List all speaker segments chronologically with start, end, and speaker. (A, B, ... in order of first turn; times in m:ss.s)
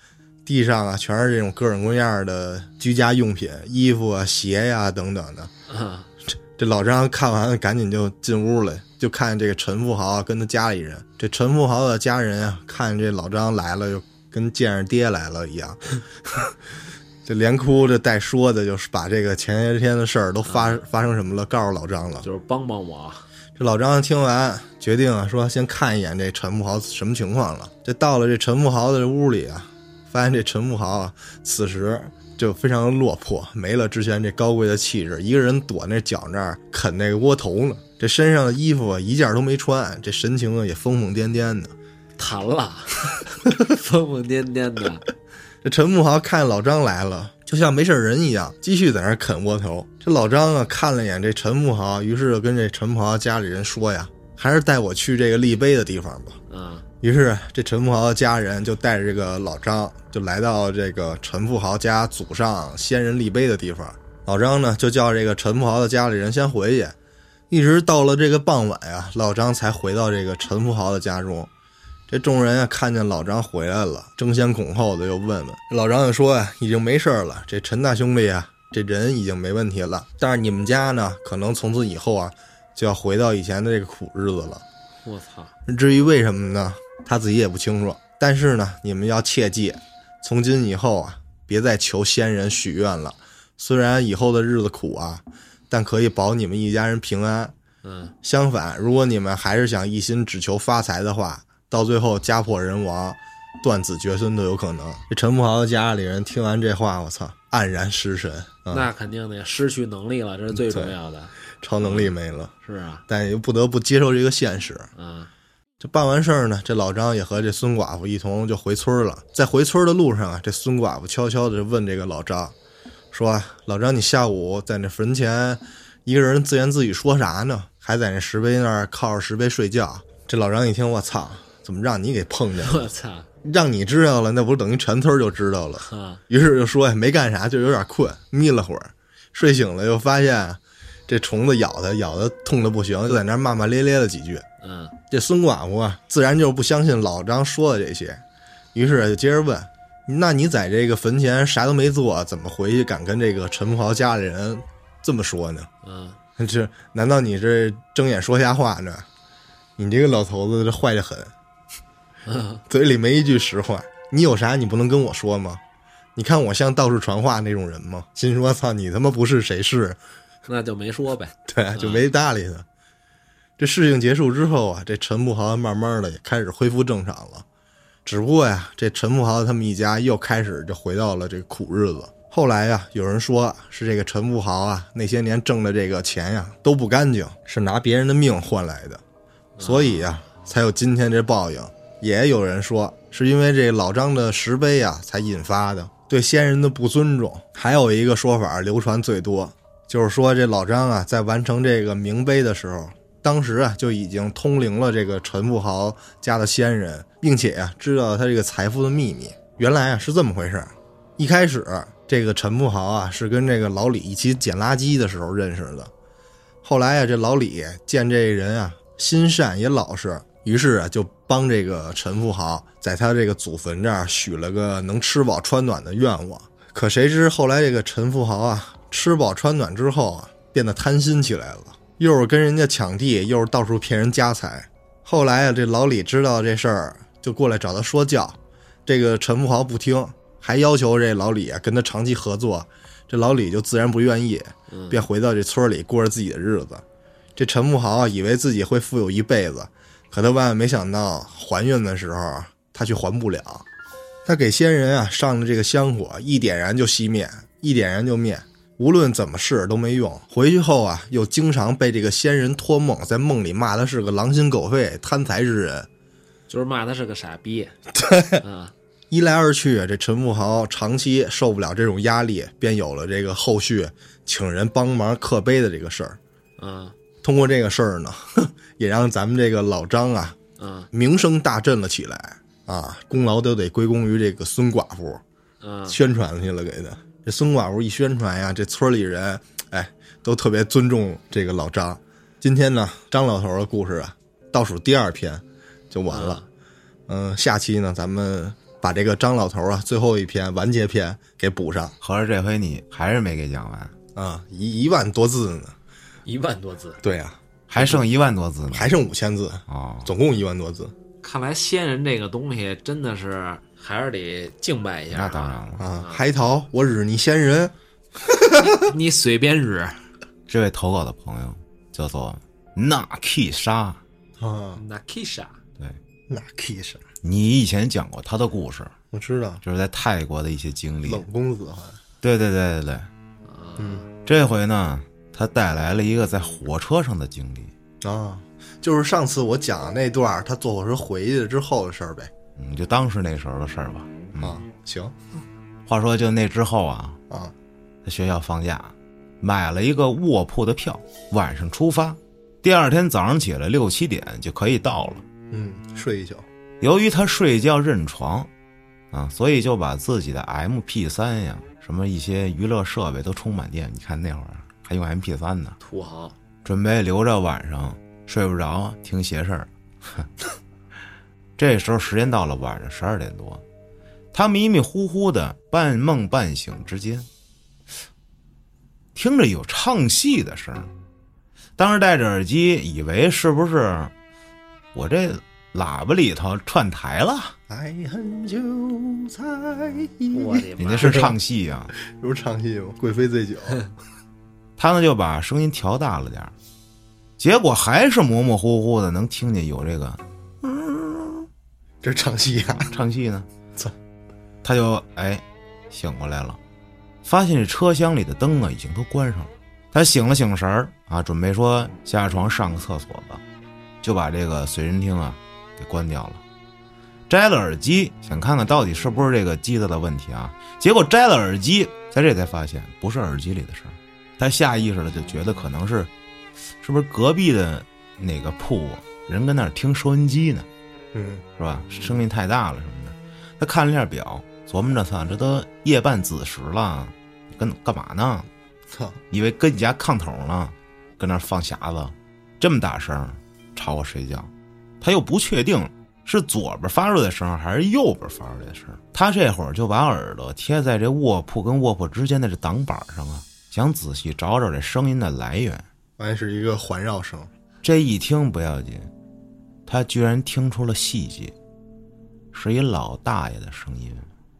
0:00.4-0:05.5 A
0:05.7-0:06.1 B
0:06.6-0:16.6 A
0:17.2-0:22.2 A
0:20.5-0:20.8 B
0:22.2-0:23.2 B
0:23.6-0:41.7 A
0:42.2-0:45.0 B
0:45.6-0:56.4 A
0:56.5-0:56.8 B
0:57.0-1:07.0 A
1:07.5-1:11.5 A
1:12.1-1:24.6 A
1:25.0-1:25.5 B
1:25.7-1:37.5 A
1:37.8-1:38.1 B
1:38.2-1:48.9 A
1:48.7-1:52.1 B
1:50.5-1:50.9 A
1:51.6-1:52.5 A
1:52.6-1:53.0 B
1:53.1-1:54.9 A
1:55.0-1:55.3 B
1:55.8-2:02.5 A
2:03.1-2:12.8 A
2:12.6-2:13.3 B
2:13.4-2:24.4 A
2:15.8-2:16.2 B
2:24.6-2:24.9 B
2:25.1-2:28.2 A
2:28.7-2:35.7 A
2:35.8-2:36.2 B
2:36.4-2:39.1 A
2:39.8-2:41.3 A
2:42.2-2:42.6 B
2:42.7-2:45.6 A
2:46.2-2:50.0 A
2:50.4-2:52.0 B
2:51.5-2:52.6 A
2:53.6-2:57.4 A
2:58.0-3:09.0 A
3:09.6-3:10.1 B
3:09.6-3:35.9 A
3:36.6-4:06.8 A
4:04.7-4:05.0 B
4:07.4-4:13.6 A
4:14.2-4:25.9 A
4:26.5-4:27.7 B
4:28.0-4:28.4 A
4:28.4-4:28.7 B
4:29.1-4:36.2 A
4:36.6-4:36.9 B
4:37.2-4:40.4 A
4:40.6-4:40.9 B
4:40.9-4:45.2 A
4:45.6-4:46.0 B
4:45.9-4:56.4 A
4:56.1-4:56.4 B
4:57.1-5:02.0 A
5:02.0-5:03.9 C
5:04.1-5:05.7 A
5:06.2-5:07.0 B
5:07.0-5:08.0 A
5:07.7-5:08.9 C
5:08.7-5:10.9 A
5:09.7-5:10.1 C
5:11.2-5:16.2 B
5:15.1-5:15.8 C
5:15.8-5:17.7 A
5:18.2-5:18.8 A
5:18.8-5:20.0 B
5:20.5-5:24.0 C
5:24.4-5:24.8 A
5:24.7-5:25.6 B
5:26.3-5:27.0 A
5:27.2-5:28.9 C
5:29.1-5:29.6 A
5:29.6-5:31.2 C
5:31.0-5:32.0 A
5:32.2-5:33.1 C
5:33.4-5:34.1 B
5:33.8-5:34.0 A
5:34.2-5:37.7 C
5:38.0-5:42.3 A
5:42.6-5:44.6 C
5:44.4-5:45.1 A
5:45.9-5:47.2 C
5:48.0-5:55.2 C
5:55.5-5:56.4 A
5:56.8-5:58.5 C
5:59.1-6:05.8 C
6:05.8-6:06.3 B
6:06.6-6:10.3 C
6:11.6-6:13.6 C
6:14.3-6:17.3 C
6:19.1-6:20.9 C
6:21.8-6:24.1 C
6:24.9-6:27.5 C
6:27.7-6:31.3 A
6:30.3-6:31.3 B
6:30.8-6:31.9 C
6:32.0-6:33.8 A
6:34.8-6:36.5 C
6:37.4-6:41.5 C
6:42.0-6:42.9 A
6:42.8-6:43.5 C
6:44.6-6:46.6 C
6:47.2-6:53.4 C
6:54.0-6:56.4 C
6:57.3-7:06.1 C
7:06.8-7:10.7 C
7:11.1-7:11.4 A
7:11.6-7:18.5 C
7:18.9-7:19.2 A
7:19.3-7:35.8 C
7:36.2-7:37.5 A
7:37.8-7:39.1 C
7:39.9-7:41.5 C
7:42.5-7:44.3 C